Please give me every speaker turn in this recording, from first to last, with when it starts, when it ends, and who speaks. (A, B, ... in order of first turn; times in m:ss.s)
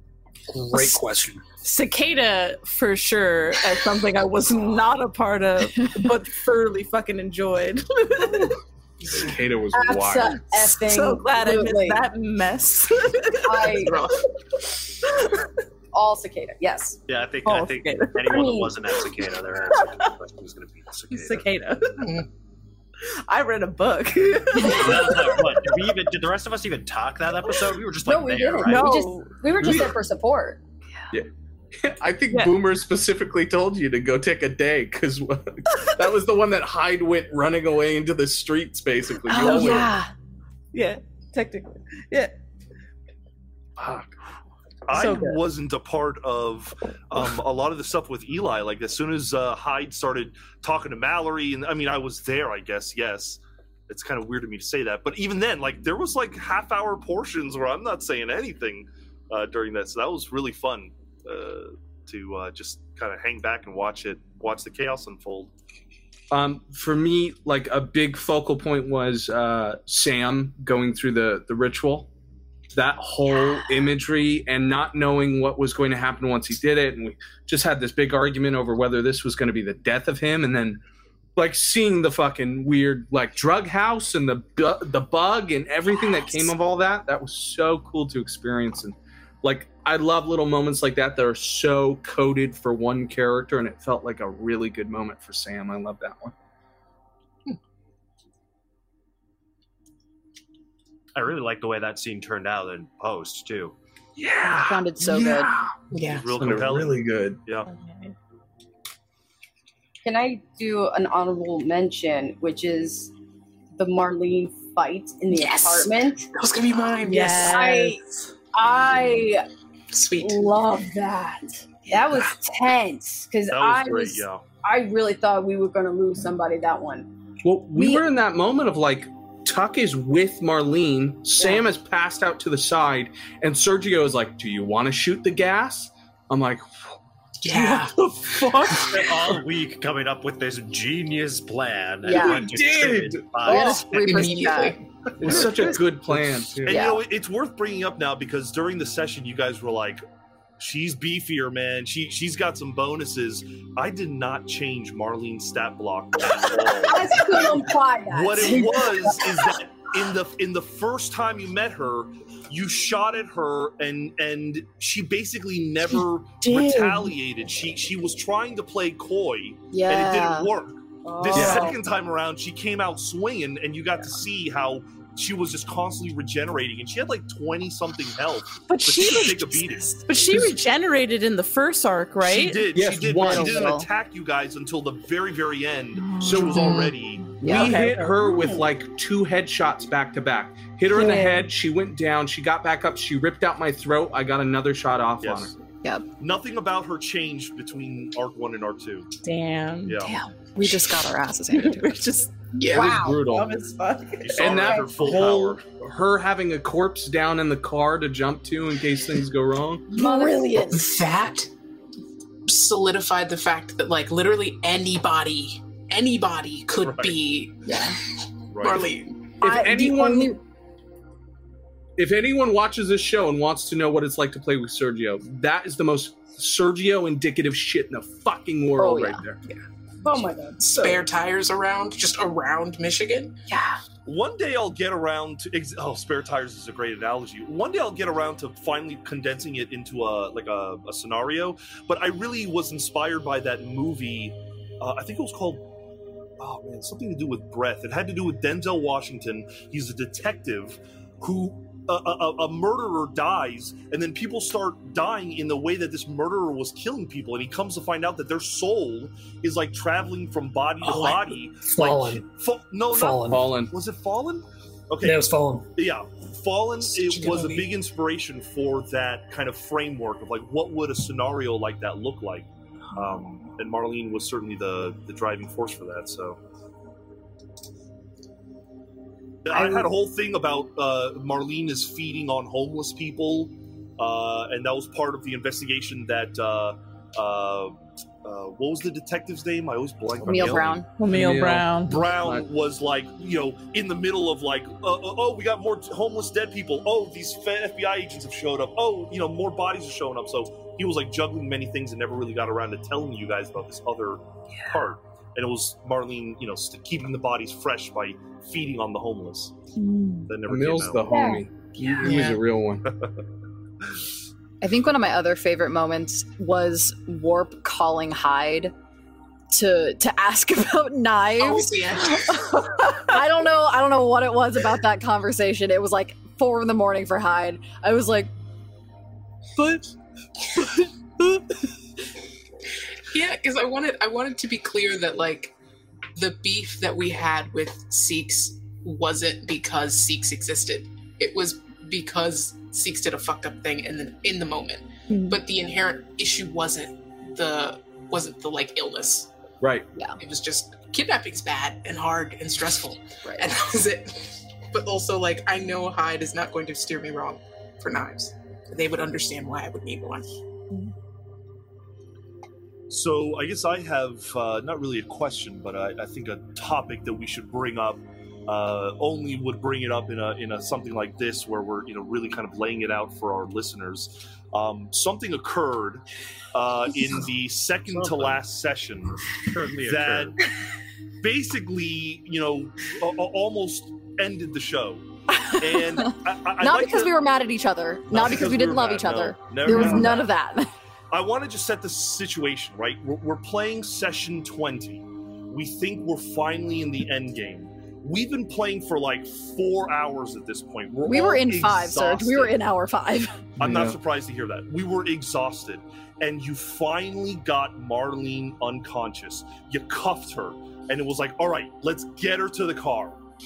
0:00.5-0:01.4 A
0:01.6-0:08.6 B
0:09.1-0:10.4 C
0:09.7-0:12.1 D
0:10.7-0:14.0 B
0:13.4-0:14.0 D
0:13.7-0:14.2 E
0:15.9-0:17.0 D
0:17.1-0:21.5 F
0:17.4-0:19.3 B
0:18.3-0:18.7 D
0:19.8-0:20.1 B
0:21.1-0:22.2 B
0:22.0-0:22.2 E
0:23.3-0:26.0 B
0:24.7-0:29.0 F
0:28.0-0:30.6 D
0:28.6-0:29.8 B
0:29.6-0:30.0 C
0:31.1-0:40.0 C
0:32.3-0:32.6 B
0:39.3-0:40.1 G
0:39.4-0:39.8 B
0:40.7-0:42.3 B
0:43.8-0:44.1 C
0:44.9-1:05.5 H
0:44.9-0:45.4 B
1:06.3-1:12.1 C
1:12.7-1:20.8 C
1:21.4-1:36.3 C
1:41.2-1:43.8 F
1:44.2-1:45.8 C
1:44.6-1:45.5 G
1:45.9-1:46.4 E
1:46.0-1:47.7 H
1:46.4-1:47.4 C
1:47.7-1:48.1 B
1:50.0-1:53.1 D
1:53.8-1:56.3 D
1:55.3-1:57.6 E
1:57.1-1:58.0 D
1:57.1-1:58.0 B
1:58.5-1:59.4 D
1:59.9-2:00.5 E
2:00.2-2:07.1 D
2:03.5-2:04.4 H
2:07.4-2:19.4 C
2:07.7-2:08.0 D
2:17.4-2:18.9 E
2:18.8-2:23.9 F
2:22.0-2:22.6 G
2:22.1-2:23.8 C
2:23.4-2:24.8 G
2:24.0-2:24.8 E
2:25.2-2:26.8 C
2:25.3-2:25.8 H
2:26.6-2:30.0 H
2:26.7-2:27.0 G
2:30.6-3:00.0 H
2:36.8-2:39.5 D
2:46.4-2:47.1 B
2:49.7-2:50.5 G
2:51.1-2:51.8 B
2:51.3-2:51.7 C
2:58.6-3:02.7 B
3:02.2-3:07.3 H
3:02.7-3:03.8 C
3:03.2-3:03.9 G
3:06.0-3:08.1 B
3:06.2-3:15.5 C
3:07.4-3:07.8 G
3:08.1-3:08.7 D
3:11.0-3:11.4 B
3:15.2-3:15.5 H
3:16.2-3:19.1 H
3:19.2-3:20.0 B
3:19.9-3:20.2 H
3:20.0-3:22.3 G
3:21.5-3:22.0 B
3:22.6-3:23.0 E
3:22.7-3:23.2 D
3:22.8-3:23.6 C
3:23.0-3:24.6 B
3:24.2-3:25.6 H
3:24.3-3:29.9 C
3:24.5-3:25.4 D
3:29.9-3:30.7 D
3:29.9-3:30.9 G
3:30.7-3:31.5 E
3:32.5-3:37.7 E
3:36.8-3:37.2 H
3:37.7-3:37.9 G
3:38.5-3:38.9 H
3:38.6-3:39.3 E
3:39.4-3:40.4 C
3:39.4-3:40.4 D
3:42.0-3:49.4 C
3:48.8-3:49.2 G
3:50.0-3:50.6 D
3:50.6-3:53.4 E
3:54.1-4:05.7 H
4:06.4-4:36.4 H
4:20.8-4:21.4 E
4:21.7-4:22.3 A
4:22.9-4:23.5 A
4:23.3-4:23.7 C
4:25.0-4:25.7 A
4:27.0-4:27.7 E
4:39.4-4:50.8 H
4:50.2-4:50.7 F
4:50.2-4:50.9 G
4:50.9-4:52.0 B
4:51.0-4:52.5 C
4:51.8-5:09.6 H
5:09.8-5:10.3 B
5:10.3-5:11.0 H
5:10.5-5:12.9 C
5:11.1-5:12.2 D
5:11.9-5:12.3 E
5:14.6-5:18.7 G
5:19.5-5:28.3 G
5:21.4-5:22.4 E
5:29.6-5:29.8 G
5:33.1-5:35.5 E
5:36.2-5:49.3 E
5:45.1-5:45.4 B
5:49.6-5:49.9 C
5:50.2-6:00.3 E
5:53.2-5:53.5 G
6:02.9-6:19.3 H
6:17.9-6:18.4 F
6:19.4-6:20.4 F
6:19.9-6:20.4 H
6:21.2-6:27.1 H
6:25.4-6:30.7 G
6:28.1-6:30.3 H
6:31.1-6:42.5 H
6:41.0-6:43.5 G
6:43.6-6:53.2 H
6:43.6-6:44.0 C